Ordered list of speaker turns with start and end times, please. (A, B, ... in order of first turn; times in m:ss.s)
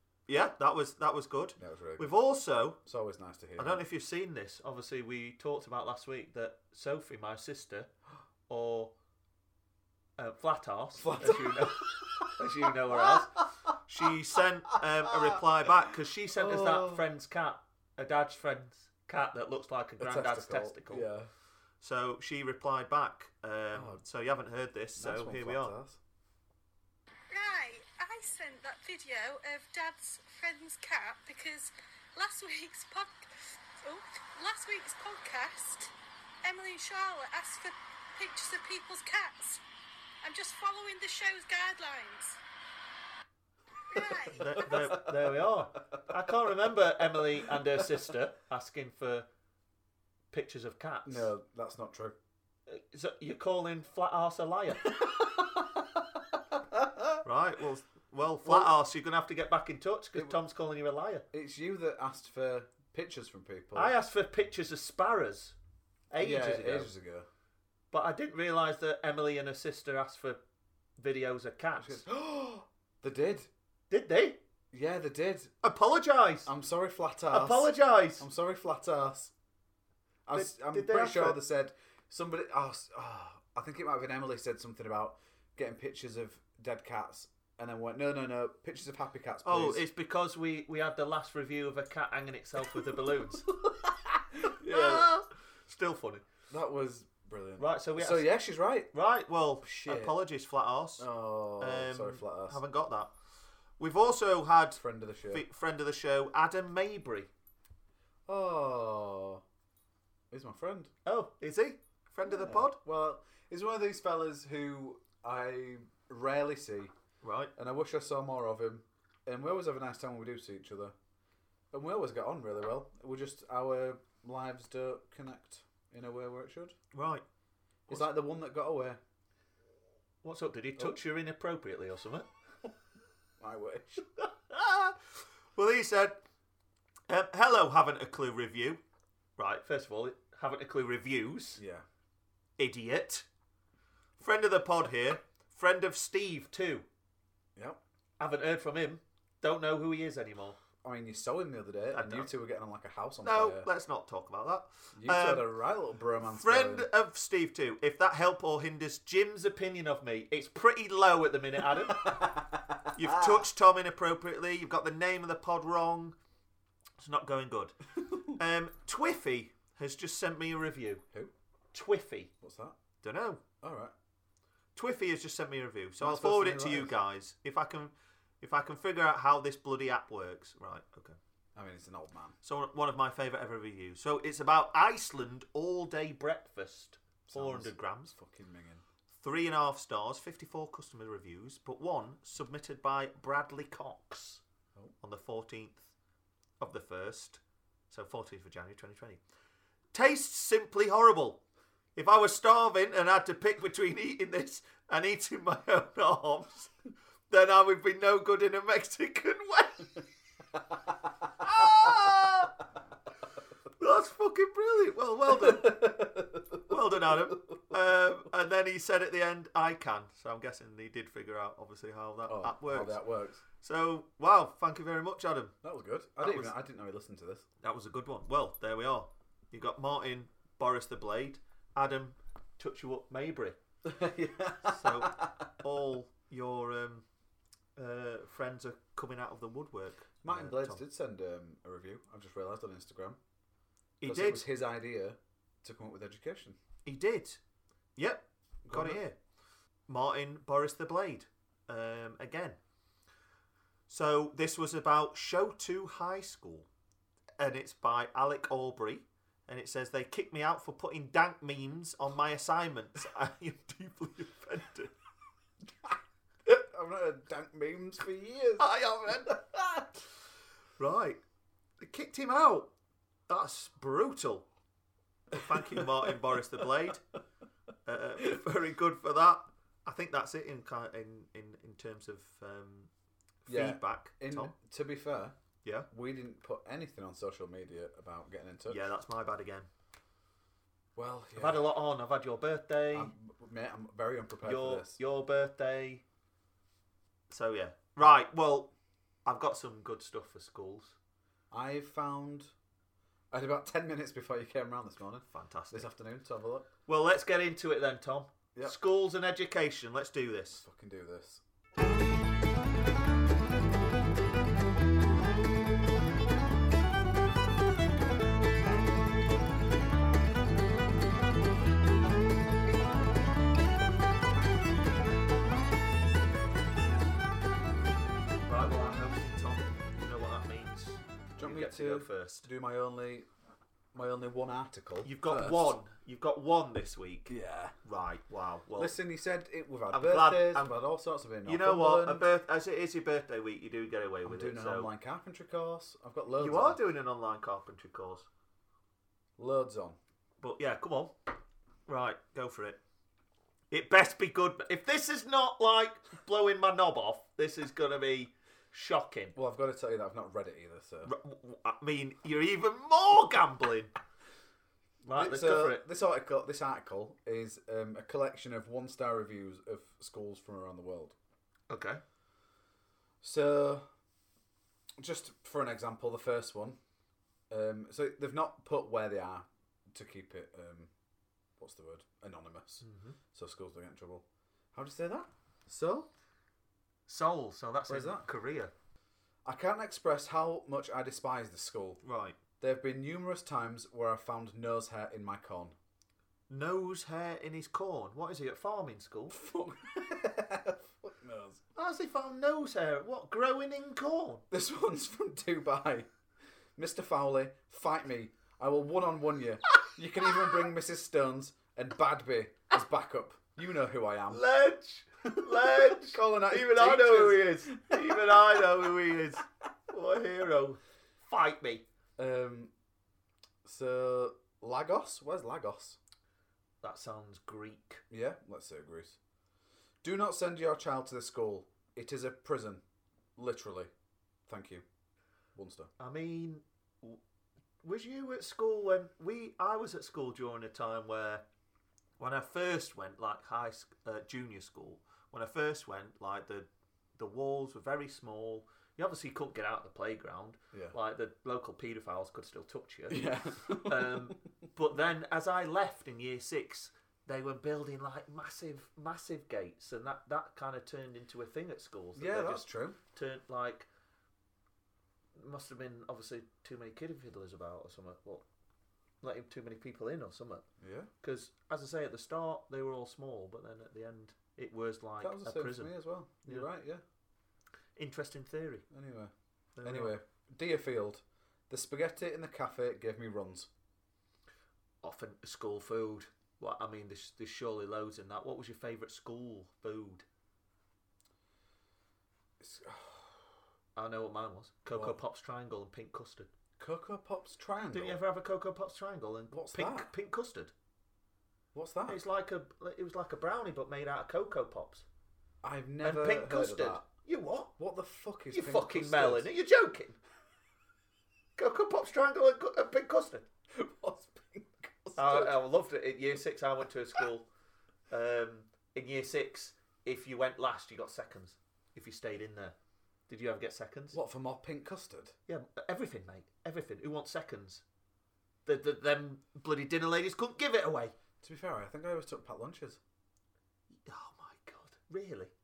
0:00.3-0:02.8 A
0:01.6-0:02.1 B
0:02.8-0:03.8 B
0:03.6-0:07.9 A
0:08.5-0:08.9 A
0:10.2-0:21.1 A
0:11.0-0:14.1 B
0:14.7-0:15.4 B
0:16.3-0:17.1 B
0:20.0-0:21.3 B
0:21.8-0:25.7 A
0:23.7-0:24.0 B
0:25.0-0:26.0 B
0:27.3-0:33.3 C
0:33.8-0:35.9 C
0:36.4-0:39.6 C
0:40.2-0:42.4 C
0:43.9-0:44.6 C
0:44.3-0:49.3 A
0:44.4-0:46.1 B
0:47.2-0:47.9 B
0:50.3-0:51.3 A
0:51.0-0:52.2 B
0:52.7-0:54.9 A
0:54.9-0:57.2 B
0:57.2-1:01.2 A
0:58.4-0:58.7 B
1:01.3-1:03.9 B
1:03.7-1:05.6 A
1:06.1-1:06.9 A
1:06.2-1:07.3 B
1:07.9-1:10.4 A
1:11.0-1:12.0 A
1:11.8-1:13.5 B
1:13.9-1:14.4 A
1:14.7-1:15.5 B
1:15.6-1:16.5 A
1:16.4-1:19.3 B
1:17.3-1:18.2 A
1:20.3-1:29.8 B
1:20.3-1:21.4 A
1:29.4-1:33.5 A
1:33.5-1:35.1 B
1:34.7-1:36.2 A
1:36.5-1:38.9 B
1:37.6-1:38.3 A
1:38.9-1:41.0 A
1:39.6-1:40.2 B
1:41.0-1:42.6 B
1:41.6-1:43.1 A
1:43.8-1:47.3 A
1:44.8-1:45.4 B
1:48.3-1:49.4 B
1:50.3-1:50.9 B
1:51.0-1:52.8 A
1:52.2-1:56.9 B
1:57.2-1:57.5 A
1:57.6-2:00.9 B
2:01.7-2:06.8 B
2:06.9-2:07.2 A
2:07.9-2:09.0 B
2:10.2-2:12.3 A
2:13.4-2:14.0 B
2:14.5-2:16.2 A
2:17.1-2:18.8 A
2:19.4-2:21.6 A
2:21.6-2:21.8 B
2:22.6-2:23.2 A
2:24.2-2:26.8 A
2:28.2-2:30.6 A
2:30.8-2:33.7 B
2:31.9-2:32.3 A
2:33.2-2:35.5 A
2:34.9-2:36.9 B
2:36.2-2:42.3 A
2:41.9-2:43.4 B
2:42.9-2:46.2 A
2:47.0-2:51.0 A
2:51.7-2:52.3 A
2:52.4-2:52.8 B
2:53.0-2:53.4 A
2:53.6-2:53.9 B
2:54.8-3:01.2 A
2:56.0-2:56.9 B
3:01.6-3:02.4 B
3:02.4-3:08.1 A
3:07.3-3:08.8 B
3:09.2-3:14.4 A
3:15.0-3:15.9 A
3:16.6-3:19.2 A
3:19.9-3:21.4 A
3:22.0-3:26.7 A
3:27.3-3:30.0 A
3:31.4-3:32.6 A
3:33.8-3:36.1 A
3:35.3-3:37.6 B
3:36.6-3:43.0 A
3:42.3-3:43.4 B
3:43.6-3:45.5 A
3:45.6-3:47.4 B
3:46.2-3:46.5 A
3:47.6-3:53.6 A
3:53.8-3:55.5 B
3:54.6-3:57.0 A
3:57.8-4:00.8 A
4:00.2-4:03.2 B
4:04.0-4:04.5 A
4:04.0-4:06.6 B
4:06.8-4:07.4 A
4:08.0-4:09.2 A
4:08.6-4:09.0 B
4:09.9-4:12.6 A
4:13.9-4:16.7 A
4:17.4-4:24.9 A
4:25.8-4:29.9 B
4:28.6-4:29.3 A
4:30.8-4:31.2 A
4:31.8-4:32.7 A
4:33.3-4:34.5 A
4:35.3-4:37.0 A
4:35.3-4:36.0 B
4:37.8-4:42.9 A
4:43.4-4:44.5 A
4:43.5-4:45.4 B
4:45.9-4:48.8 B
4:48.7-4:49.7 A
4:51.0-4:51.7 B
4:51.4-4:53.1 A
4:52.9-4:55.0 B
4:54.4-4:56.0 A
4:57.3-4:58.7 A
4:59.2-5:01.0 A
5:01.5-5:02.5 B
5:03.3-5:06.7 B
5:05.3-5:05.9 A
5:06.9-5:10.6 A
5:10.5-5:11.4 B
5:28.4-5:32.5 A
5:31.4-5:33.3 B
5:33.9-5:35.8 B
5:35.0-5:37.3 A
5:37.3-5:37.7 B
5:37.8-5:39.0 A
5:38.8-5:42.2 B
5:39.9-5:40.7 A
5:41.4-5:44.9 A
5:44.2-5:46.8 B
5:46.4-5:48.3 A
5:49.4-5:50.0 B
5:50.4-5:51.1 A
5:51.9-5:52.8 A
5:53.7-5:59.3 A
5:59.3-6:01.1 B
6:01.0-6:03.9 A
6:05.0-6:05.8 A
6:05.1-6:11.1 B
6:11.7-6:12.0 A
6:13.2-6:13.8 B
6:15.0-6:16.8 B
6:17.5-6:20.9 B
6:21.6-6:26.1 B
6:22.8-6:23.2 A
6:27.1-6:28.7 A
6:27.9-6:28.3 B
6:29.4-6:32.0 B
6:32.0-6:32.4 A
6:32.6-6:35.8 B
6:36.5-6:39.4 A
6:39.3-6:41.6 B
6:41.8-6:44.4 A
6:44.5-6:46.1 B
6:46.8-6:54.4 B
6:54.3-7:01.8 A
6:55.3-6:58.9 B
7:02.2-7:02.7 B
7:03.6-7:06.0 B
7:06.8-7:08.0 A
7:08.1-7:09.2 B
7:10.0-7:12.8 B
7:13.4-7:13.9 B
7:14.5-7:14.8 B
7:15.5-7:15.9 B
7:16.0-7:17.2 A
7:17.8-7:21.4 A
7:22.2-7:43.9 A
7:33.1-7:34.4 B
7:42.2-7:43.0 B
7:45.4-7:48.4 A
7:49.2-7:50.6 A
7:50.8-7:51.1 B
7:51.2-7:55.9 A
7:55.2-7:57.0 B
7:58.0-7:58.8 A
7:58.9-8:03.7 B
7:59.8-8:00.2 A
8:05.0-8:10.2 A
8:12.6-8:13.5 B
8:14.0-8:16.5 A
8:14.9-8:15.2 B
8:16.8-8:18.2 B
8:17.9-8:20.7 A
8:19.5-8:20.1 B
8:21.7-8:22.2 B
8:22.1-8:25.0 A
8:25.6-8:27.0 B
8:26.0-8:27.7 A
8:27.8-8:29.4 B
8:28.5-8:30.2 A
8:31.6-8:33.5 A
8:33.7-8:35.6 B
8:35.2-8:37.5 A
8:38.1-8:42.8 A
8:43.3-8:44.2 A
8:44.1-8:45.3 B
8:45.5-8:47.8 A
8:48.6-8:51.1 A
8:51.4-8:53.0 B
8:54.0-8:55.5 A